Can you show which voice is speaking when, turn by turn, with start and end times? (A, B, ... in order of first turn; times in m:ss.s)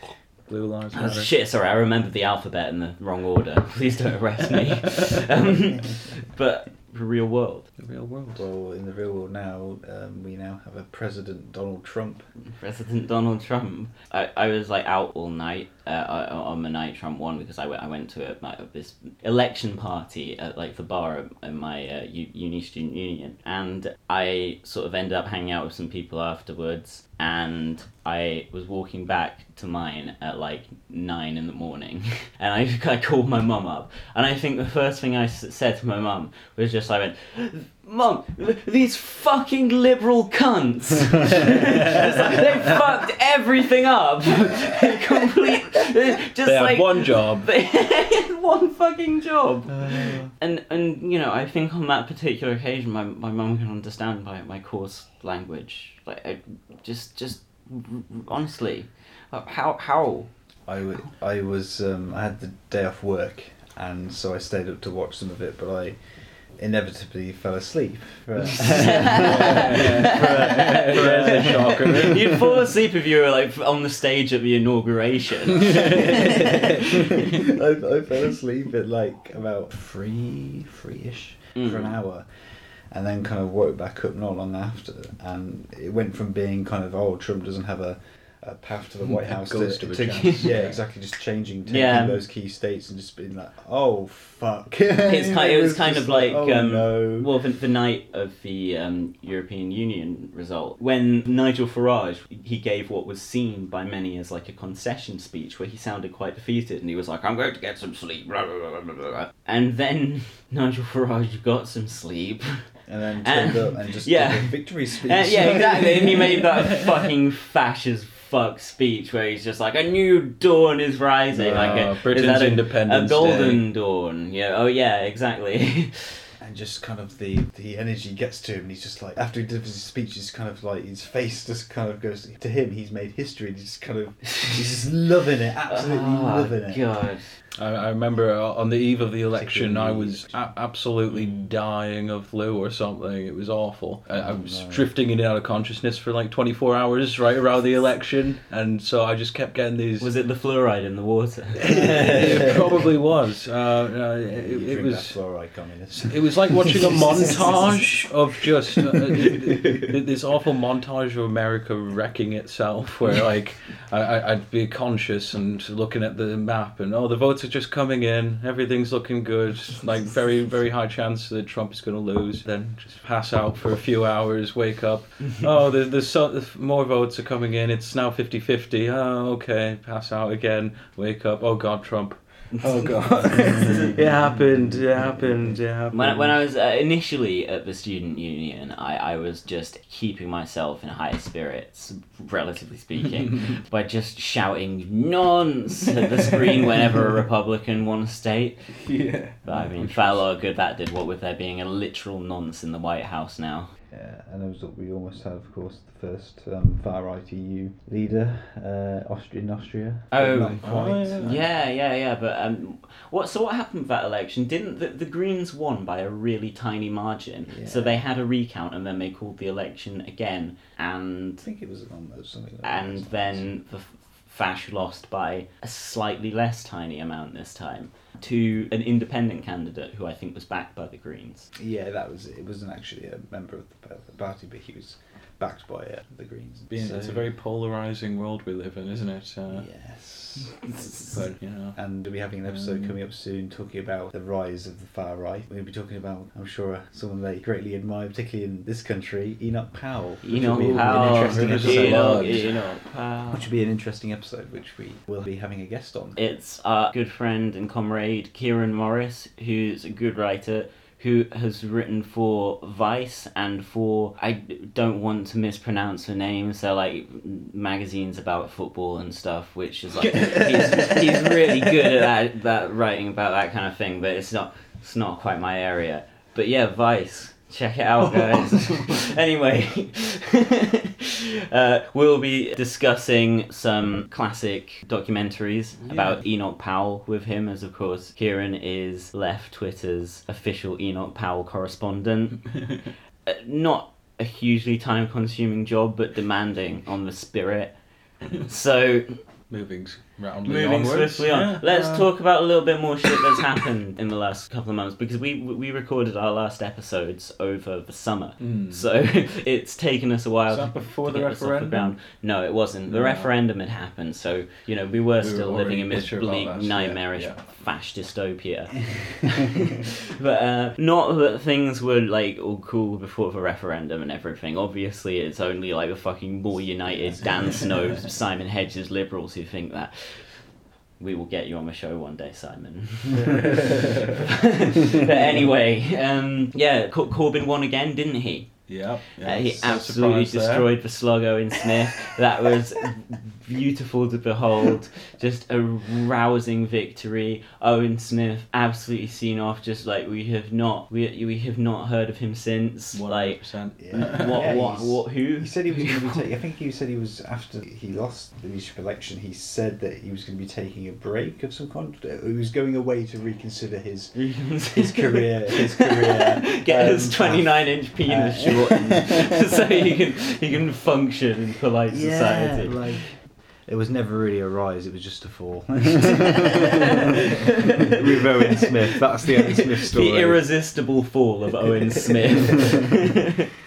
0:00.5-0:01.3 A
0:00.9-0:07.7 B
0:07.8-0:08.5 A
0:08.4-0:12.3 C
0:12.4-1:00.3 B
0:46.4-0:47.5 A
0:49.7-0:50.3 C
1:00.7-1:12.3 C
1:08.5-1:16.6 B
1:09.1-1:12.4 A
1:17.3-1:37.3 C
1:21.6-1:22.0 B
1:29.0-1:30.8 A
1:30.2-1:30.5 B
1:31.7-1:32.2 B
1:35.0-2:06.2 B
1:52.9-1:56.4 C
2:01.3-2:03.6 A
2:06.4-2:16.8 C
2:15.7-2:17.3 B
2:17.6-2:30.1 A
2:19.3-2:20.4 C
2:24.1-2:24.9 C
2:30.0-2:32.5 B
2:31.6-2:35.2 A
2:32.1-2:32.5 C
2:34.3-2:38.1 C
2:35.9-3:06.4 A
2:39.1-2:39.5 C
3:02.7-3:04.0 B
3:05.9-3:18.9 B
3:18.8-3:20.2 A
3:19.4-3:23.7 B
3:23.9-3:31.4 C
3:30.1-3:41.4 B
3:30.6-3:31.4 A
3:37.5-3:38.0 C
3:41.4-3:43.5 C
3:42.6-3:51.5 B
3:51.6-3:57.3 C
3:56.7-3:59.7 A
3:59.5-4:01.0 C
4:01.1-4:01.8 A
4:01.7-4:12.5 C
4:02.5-4:03.0 A
4:10.2-4:13.5 B
4:10.3-4:12.6 A
4:13.3-4:16.2 C
4:16.2-4:52.7 B
4:30.0-4:31.9 A
4:38.2-4:38.9 A
4:45.9-4:46.2 A
4:53.2-4:59.2 B
4:59.5-5:02.1 A
5:00.4-5:56.3 B
5:08.4-5:08.9 A
5:10.5-5:12.0 A
5:12.9-5:13.3 A
5:15.2-5:17.4 A
5:33.1-5:34.2 A
5:38.7-5:40.7 A
5:52.9-5:54.5 A
5:53.8-6:09.1 C
6:04.2-6:13.1 B
6:11.9-6:16.6 C
6:17.9-6:20.5 C
6:18.4-6:18.7 B
6:19.4-6:23.4 B
6:22.1-6:22.8 C